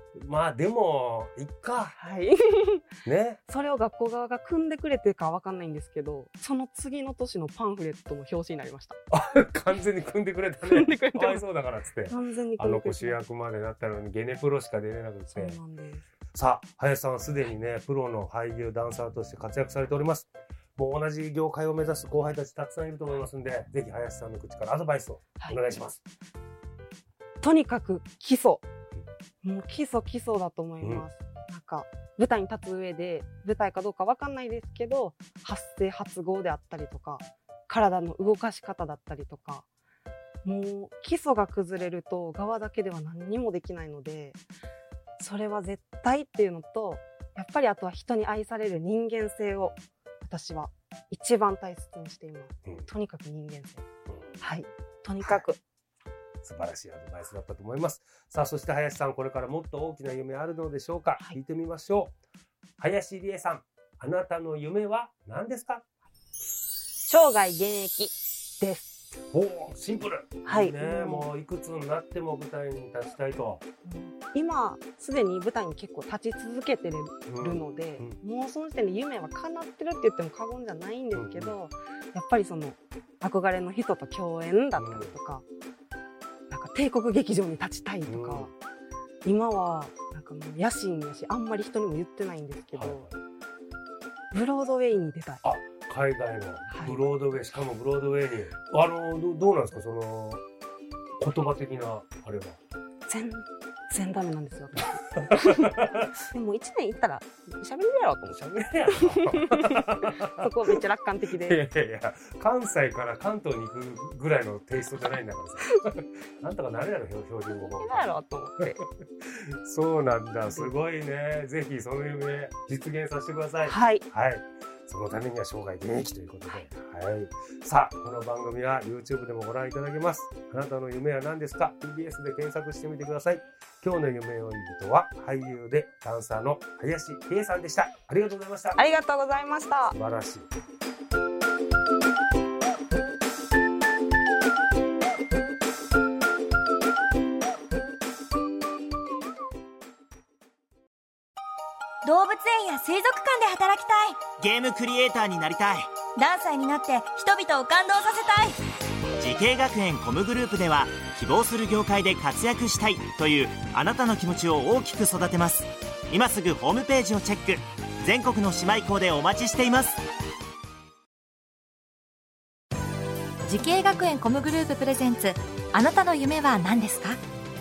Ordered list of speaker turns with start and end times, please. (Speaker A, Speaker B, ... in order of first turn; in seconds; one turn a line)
Speaker A: 0.1-1.9
Speaker B: 1.9-2.9
Speaker A: 3.0-3.4
Speaker B: 3.4-9.0
Speaker A: 9.1-15.6
Speaker B: 10.7-11.4
Speaker B: 12.1-13.2
Speaker B: 15.3-16.0
Speaker A: 16.3-26.0
Speaker B: 27.4-28.6
Speaker B: 29.4-39.6
Speaker A: 30.8-31.1
Speaker B: 40.4-44.4
Speaker B: 45.2-53.9
Speaker A: 54.1-54.5
Speaker B: 54.4-55.6
Speaker A: 56.4-62.1
Speaker A: 62.8-65.8
Speaker B: 67.0-69.0
Speaker A: 69.3-73.6
Speaker B: 70.4-71.3
Speaker B: 73.8-85.4
Speaker A: 77.3-78.2
Speaker A: 81.1-81.6
Speaker A: 84.8-85.1
Speaker B: 86.5-88.5
Speaker A: 88.0-88.5
Speaker B: 89.2-93.1
Speaker A: 92.7-93.1
Speaker B: 94.3-95.4
Speaker A: 95.4-100.4
Speaker B: 96.7-97.0
Speaker A: 101.2-102.6
Speaker B: 103.1-111.6
Speaker A: 105.1-106.1
Speaker A: 108.3-110.8
Speaker A: 111.3-138.8
Speaker B: 117.5-118.8
Speaker B: 120.5-120.7
Speaker B: 123.6-124.0
Speaker B: 138.7-140.0
Speaker A: 139.9-140.5
Speaker C: 152.0-154.2
Speaker D: 154.4-155.9
Speaker C: 156.2-158.6
Speaker D: 159.2-170.0
Speaker E: 173.4-177.2